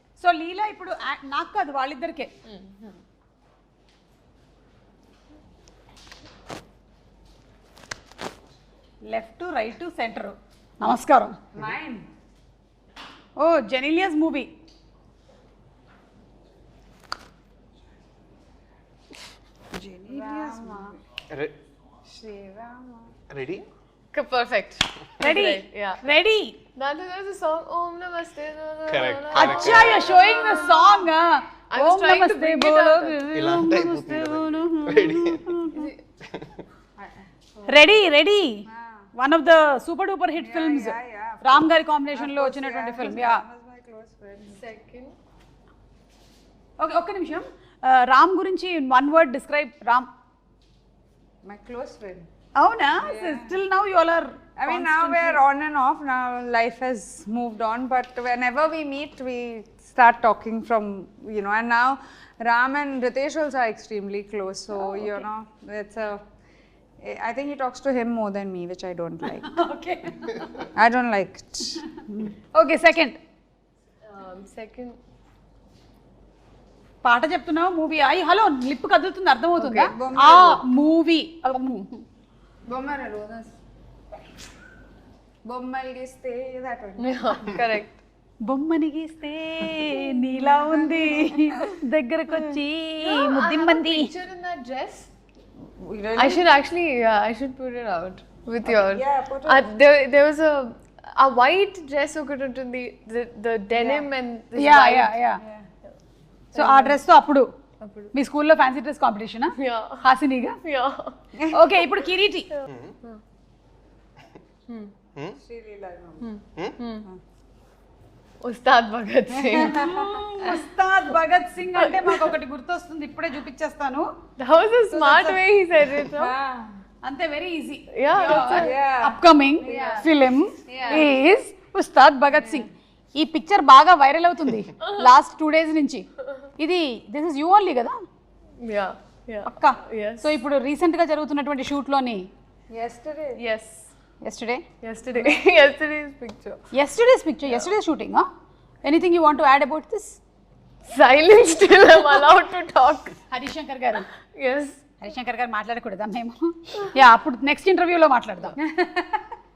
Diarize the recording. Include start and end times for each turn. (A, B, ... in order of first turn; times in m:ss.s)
0:00.2-0:02.3 A
0:02.5-0:03.0 B
0:09.1-0:11.4 A
0:11.5-0:12.1 C
0:13.4-0:14.5 A
0:19.8-0:21.0 C
0:20.1-0:20.9 A
0:22.1-0:23.1 C
0:23.3-0:23.6 D
0:24.1-0:26.0 B
0:25.2-0:26.6 A
0:26.8-0:31.1 B
0:28.9-0:30.0 D
0:29.3-0:35.9 A
0:31.7-0:33.2 B
0:33.3-0:35.6 D
0:35.7-0:36.0 B
0:37.0-0:37.8 C
0:37.7-0:43.4 A
0:38.7-0:39.1 C
0:40.4-0:44.6 C
0:44.5-0:45.1 B
0:46.8-0:50.1 A
0:51.4-0:52.3 C
0:52.6-0:55.4 A
0:53.0-0:53.6 C
0:54.6-1:06.2 C
1:04.8-1:05.2 A
1:07.0-1:09.6 C
1:09.4-1:10.6 A
1:10.7-1:11.8 C
1:12.1-1:13.2 A
1:14.1-1:15.0 B
1:17.0-1:22.0 A
1:19.6-1:19.9 B
1:19.9-1:20.6 C
1:22.7-1:23.5 C
1:25.4-1:27.6 C
1:27.0-1:28.0 B
1:28.4-1:34.1 A
1:30.0-1:31.7 C
1:33.0-1:35.1 B
1:35.8-1:36.5 C
1:36.2-1:45.2 B
1:38.6-1:39.6 C
1:43.8-1:44.1 C
1:44.6-1:45.4 A
1:45.4-1:45.7 C
1:46.5-1:47.0 B
1:46.6-1:47.5 A
1:47.8-1:48.1 B
1:48.1-1:50.6 A
1:49.6-1:50.0 B
1:50.6-1:51.2 B
1:51.4-1:51.6 C
1:51.5-1:52.5 A
1:52.6-1:53.2 B
1:52.7-1:53.0 D
1:54.7-1:54.9 B
1:55.4-1:56.3 C
1:56.2-1:57.1 B
1:58.4-2:00.6 B
1:59.3-2:00.3 C
1:59.6-2:04.1 A
2:01.8-2:02.4 B
2:04.4-2:06.3 B
2:05.0-2:05.3 A
2:06.1-2:06.8 C
2:07.0-2:16.1 A
2:08.0-2:08.7 B
2:08.2-2:10.1 C
2:10.7-2:11.2 C
2:12.4-2:12.7 C
2:14.8-2:15.1 B
2:16.6-2:18.0 A
2:18.6-2:20.3 B
2:19.5-2:22.3 A
2:22.7-2:23.4 C
2:23.4-2:23.9 B
2:24.2-2:24.6 A
2:24.8-2:26.6 B
2:26.7-2:28.3 A
2:28.8-2:30.2 A
2:30.9-2:33.2 B
2:33.3-2:34.0 A
2:34.4-2:34.8 B
2:35.0-2:38.6 A
2:38.6-2:39.2 C